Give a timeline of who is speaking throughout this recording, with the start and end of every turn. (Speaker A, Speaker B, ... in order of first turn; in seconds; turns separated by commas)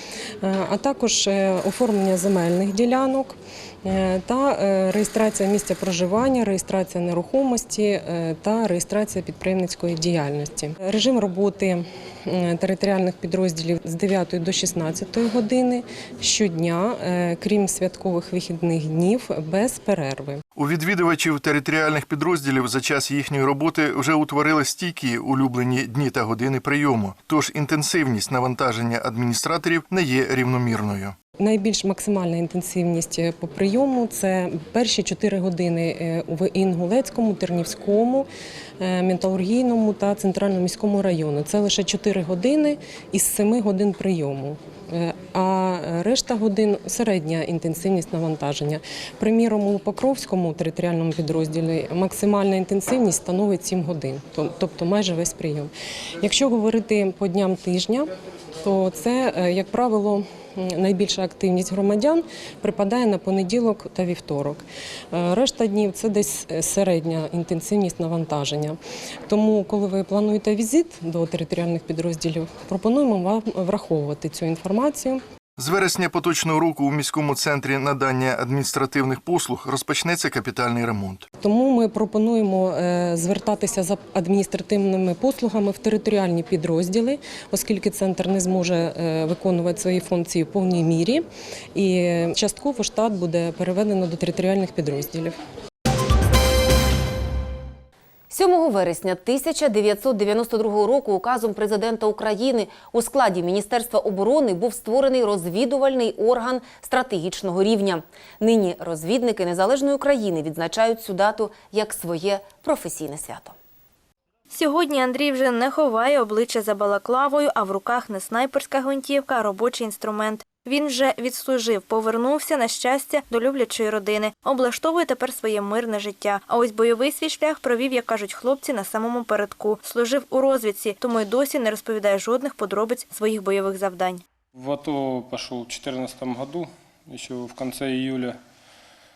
Speaker A: 0.4-20.4, Speaker B: 20.6-31.2, Speaker A: 31.4-38.3, Speaker A: 38.8-55.7, Speaker A: 56.2-58.1, Speaker A: 58.6-68.8, Speaker A: 69.3-75.2, Speaker B: 75.6-81.3, Speaker A: 81.4-95.4, Speaker C: 98.3-113.5, Speaker D: 114.5-134.2, Speaker E: 134.6-138.4